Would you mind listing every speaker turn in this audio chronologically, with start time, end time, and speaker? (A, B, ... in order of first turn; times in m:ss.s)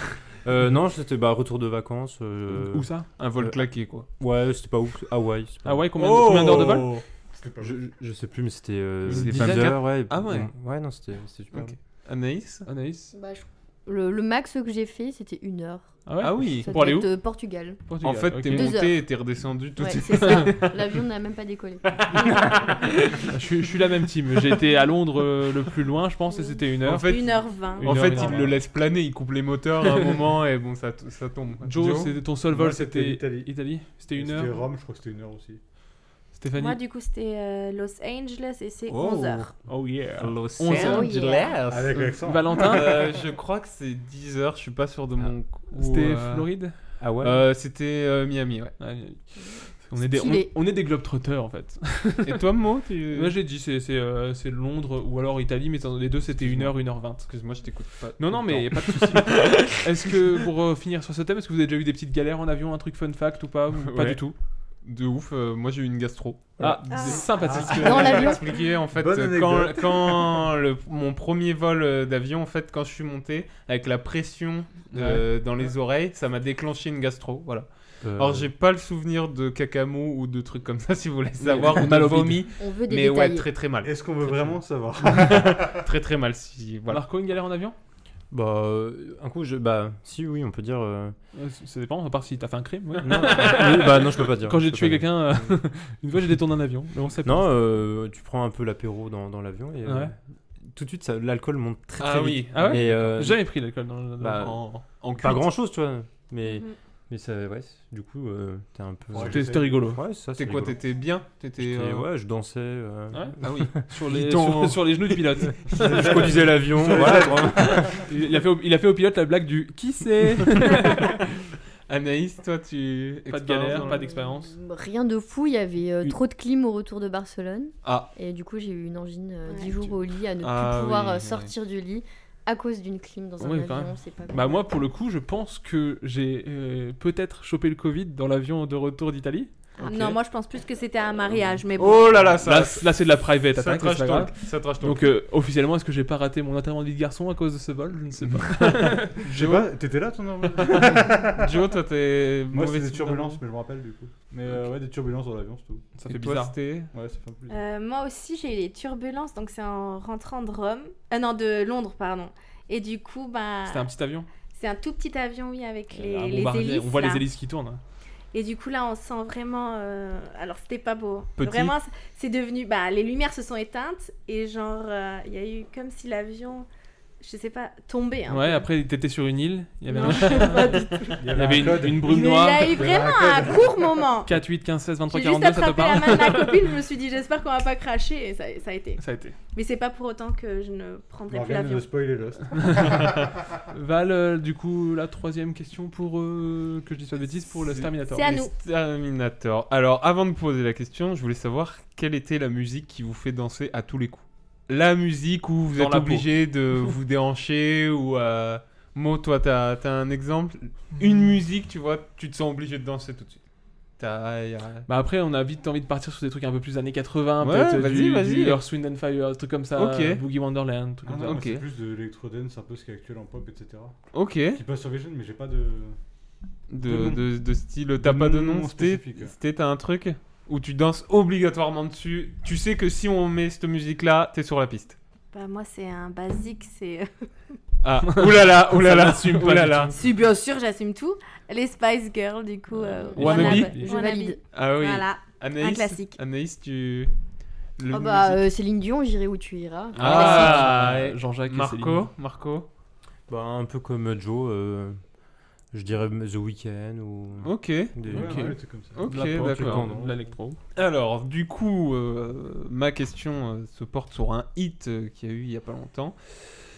0:00.4-0:06.3 A
0:02.6-0:03.1 B
0:03.2-0:04.1 C
0:05.6-0:07.0 B
0:05.9-0:07.0 C
0:07.3-0:07.7 D
0:07.6-0:11.7 A
0:09.0-0:10.5 C
0:09.1-0:09.8 B
0:11.5-0:12.7 C
0:12.6-0:13.1 B
0:13.1-0:17.9 E
0:16.0-0:17.1 B
0:16.2-0:16.7 C
0:17.9-0:18.7 B
0:18.0-0:20.7 C
0:18.4-0:19.2 E
0:19.8-0:22.5 E
0:20.2-0:20.5 B
0:22.1-0:23.3 C
0:23.3-0:28.6 B
0:26.8-0:32.2 C
0:27.0-0:28.1 F
0:28.1-0:28.5 D
0:31.6-0:34.6 B
0:32.4-0:35.6 D
0:36.3-0:36.8 B
0:36.6-0:39.6 F
0:38.9-0:39.5 C
0:39.6-0:41.1 B
0:40.2-0:48.7 C
0:40.7-0:41.5 E
0:41.7-0:43.0 D
0:42.0-0:43.1 B
0:45.7-0:46.8 B
0:47.0-0:47.5 A
0:48.8-0:52.4 B
0:49.4-0:50.5 E
0:52.2-0:53.3 C
0:53.1-0:57.3 B
0:56.4-1:00.1 C
0:58.2-1:04.3 B
1:03.8-1:04.2 C
1:04.8-1:24.4 C
1:06.6-1:08.3 B
1:06.6-1:08.4 D
1:06.9-1:07.2 F
1:07.7-1:08.4 E
1:08.9-1:10.4 D
1:14.9-1:15.2 B
1:18.0-1:18.5 A
1:21.4-1:22.4 B
1:22.6-1:23.5 E
1:23.8-1:25.9 D
1:25.0-1:27.0 C
1:26.9-1:27.8 B
1:28.3-1:31.2 A
1:31.3-1:37.5 B
1:33.0-1:35.5 A
1:37.2-1:40.2 A
1:39.8-1:40.1 B
1:40.7-1:43.5 A
1:42.0-1:43.0 C
1:42.5-1:44.6 B
1:44.2-1:45.4 C
1:45.2-1:50.8 A
1:46.4-1:46.8 F
1:49.1-1:50.0 D
1:49.2-1:50.0 B
1:50.3-1:52.0 C
1:51.6-1:53.6 A
1:53.1-1:56.4 B
1:53.4-1:54.8 C
1:55.7-1:58.0 A
1:55.7-1:58.0 D
1:57.8-2:01.1 B
2:01.9-2:04.0 C
2:03.3-2:04.6 B
2:03.7-2:14.6 E
2:07.8-2:08.1 C
2:09.4-2:09.8 F
2:10.4-2:11.5 C
2:13.4-2:19.5 B
2:19.8-2:22.2 F
2:21.8-2:25.1 C
2:22.4-2:29.5 B
2:28.6-2:29.7 C
2:29.2-2:31.6 D
2:30.6-2:33.4 C
2:32.5-2:35.9 D
2:36.0-2:36.6 B
2:36.0-2:36.9 C
2:36.9-2:37.6 D
2:37.5-2:43.9 F
2:43.6-2:44.3 B
2:44.5-2:47.2 F
2:45.9-2:47.8 B
2:48.3-2:56.7 F
2:51.4-2:51.8 C
2:57.2-2:58.6 F
2:58.3-3:02.9 B
2:59.9-3:04.3 F
3:01.2-3:04.0 D
3:04.2-3:06.6 B
3:05.1-3:09.0 F
3:09.0-3:09.4 B
3:09.5-3:12.0 F
3:11.3-3:13.3 D
3:12.6-3:13.0 B
3:13.7-3:18.3 B
3:17.7-3:33.4 C
3:18.1-3:18.5 F
3:25.7-3:26.3 B
3:34.0-3:34.9 C
3:34.9-3:41.4 B
3:37.4-3:38.6 C
3:39.8-3:40.2 C
3:41.0-3:43.9 D
3:41.2-3:41.6 C
3:44.1-3:44.6 C
3:44.5-3:46.0 D
3:46.7-3:55.0 C
3:46.8-3:47.3 D
3:47.9-3:49.3 D
3:55.3-3:57.5 F
3:57.8-4:00.0 C
3:58.0-3:59.9 B
3:59.9-4:06.2 F
4:03.1-4:03.9 B
4:03.2-4:03.8 C
4:03.3-4:04.4 E
4:04.5-4:07.1 C
4:07.8-4:08.4 C
4:07.9-4:10.9 E
4:09.9-4:12.1 B
4:09.9-4:12.7 C
4:13.3-4:15.0 A
4:15.7-4:18.5 A
4:17.4-4:18.0 C
4:18.1-4:19.0 D
4:18.1-4:20.6 B
4:18.9-4:19.9 C
4:19.1-4:20.1 A
4:19.8-4:20.2 D
4:20.7-4:26.4 C